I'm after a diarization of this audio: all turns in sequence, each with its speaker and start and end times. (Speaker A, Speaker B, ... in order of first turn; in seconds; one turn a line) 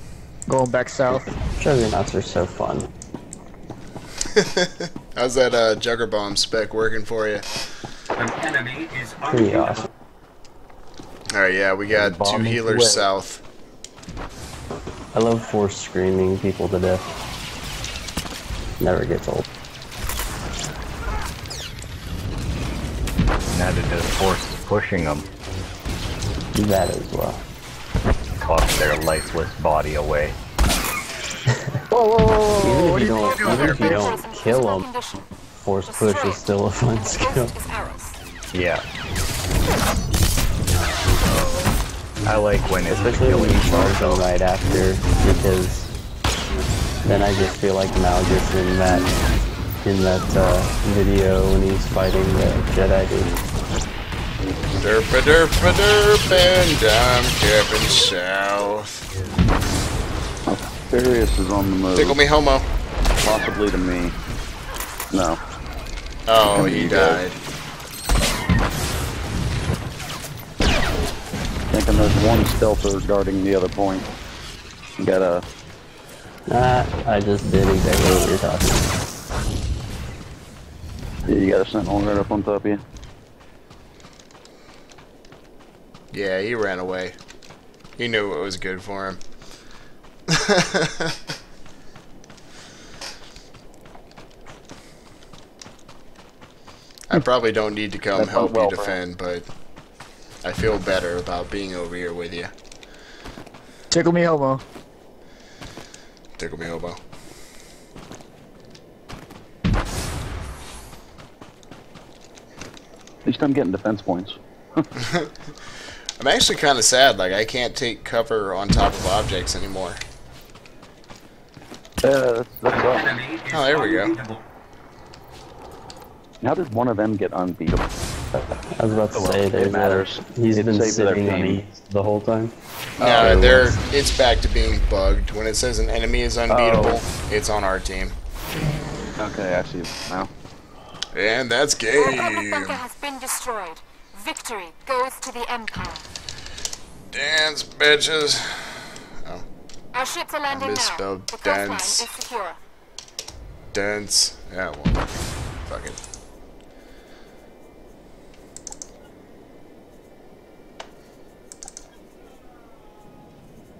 Speaker A: 0.5-1.3
Speaker B: 1.6-2.9
Speaker C: 4.3-7.5
Speaker B: 9.2-9.9
Speaker C: 11.3-13.4
Speaker B: 11.9-13.1
Speaker B: 15.1-17.1
Speaker B: 18.8-19.4
Speaker D: 23.4-25.3
Speaker B: 26.6-27.4
Speaker D: 28.4-30.4
Speaker A: 31.9-34.0
Speaker B: 32.6-34.9
Speaker E: 33.9-35.2
Speaker B: 35.6-37.5
Speaker E: 35.9-36.4
Speaker E: 37.3-38.1
Speaker D: 38.5-38.8
Speaker D: 42.2-44.1
Speaker B: 42.9-45.9
Speaker B: 47.0-49.1
Speaker B: 49.8-53.4
Speaker C: 54.8-59.0
Speaker F: 60.5-62.2
Speaker C: 62.0-62.7
Speaker F: 63.2-64.1
Speaker F: 65.1-65.4
Speaker C: 66.3-67.4
Speaker F: 66.5-67.2
Speaker F: 71.7-74.1
Speaker F: 75.0-75.4
Speaker B: 76.5-78.9
Speaker F: 81.3-82.8
Speaker C: 86.1-87.2
Speaker C: 88.0-89.2
Speaker C: 90.3-91.1
Speaker C: 97.1-99.5
Speaker F: 98.1-99.0
Speaker C: 100.4-102.5
Speaker A: 103.9-104.6
Speaker C: 106.4-107.0
Speaker F: 113.2-114.8
Speaker C: 115.0-115.3
Speaker C: 116.2-120.0
Speaker F: 122.0-123.4
Speaker C: 123.5-124.2
Speaker F: 126.4-127.8
Speaker B: 128.3-133.8
Speaker F: 129.1-131.6
Speaker F: 133.0-133.3
Speaker C: 133.1-138.1
Speaker F: 136.5-137.1
Speaker F: 139.2-140.3
Speaker C: 141.1-142.8
Speaker E: 141.9-146.0
Speaker C: 147.1-149.4
Speaker E: 149.9-152.6
Speaker C: 150.5-152.1
Speaker C: 153.7-156.0